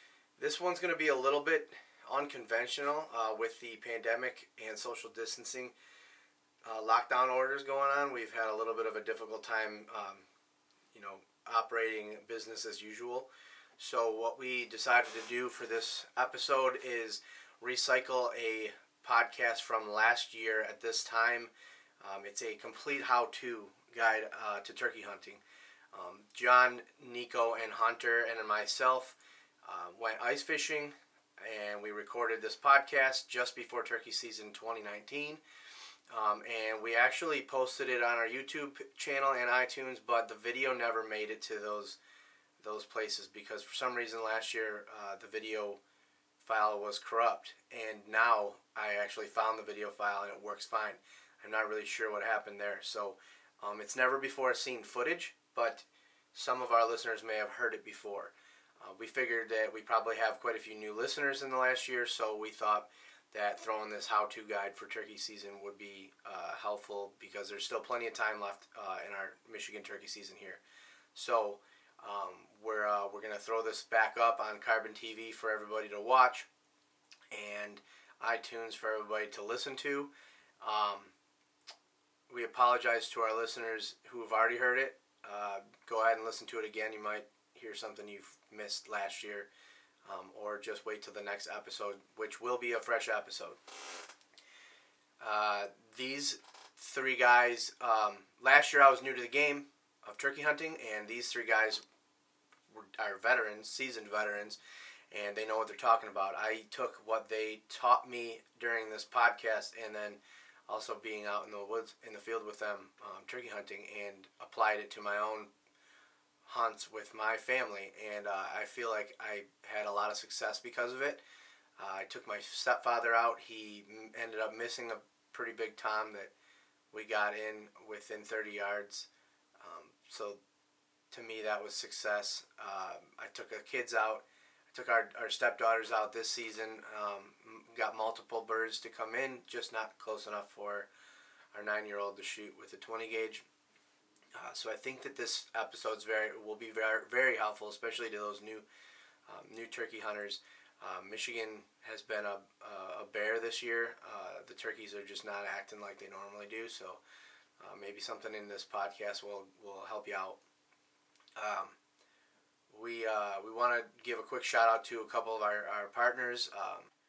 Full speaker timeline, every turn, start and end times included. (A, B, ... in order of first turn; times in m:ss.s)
0:00.4-0:05.7 A
0:06.6-0:10.2 A
0:10.9-0:21.5 A
0:22.0-0:25.4 A
0:25.9-0:35.4 A
0:36.1-0:42.0 A
0:42.6-0:45.8 A
0:46.4-1:10.6 A
1:11.1-1:16.5 A
1:17.3-1:20.1 A
1:20.6-1:21.1 A
1:22.3-1:29.5 A
1:30.0-1:33.6 A
1:35.2-1:41.8 A
1:42.7-1:44.6 A
1:45.1-1:55.5 A
1:56.5-2:01.2 A
2:01.8-2:06.3 A
2:06.9-2:09.1 A
2:09.6-2:10.4 A
2:11.1-2:20.9 A
2:21.5-2:23.4 A
2:24.4-2:28.6 A
2:29.3-2:37.0 A
2:37.6-2:40.4 A
2:41.4-2:41.7 A
2:42.7-2:46.9 A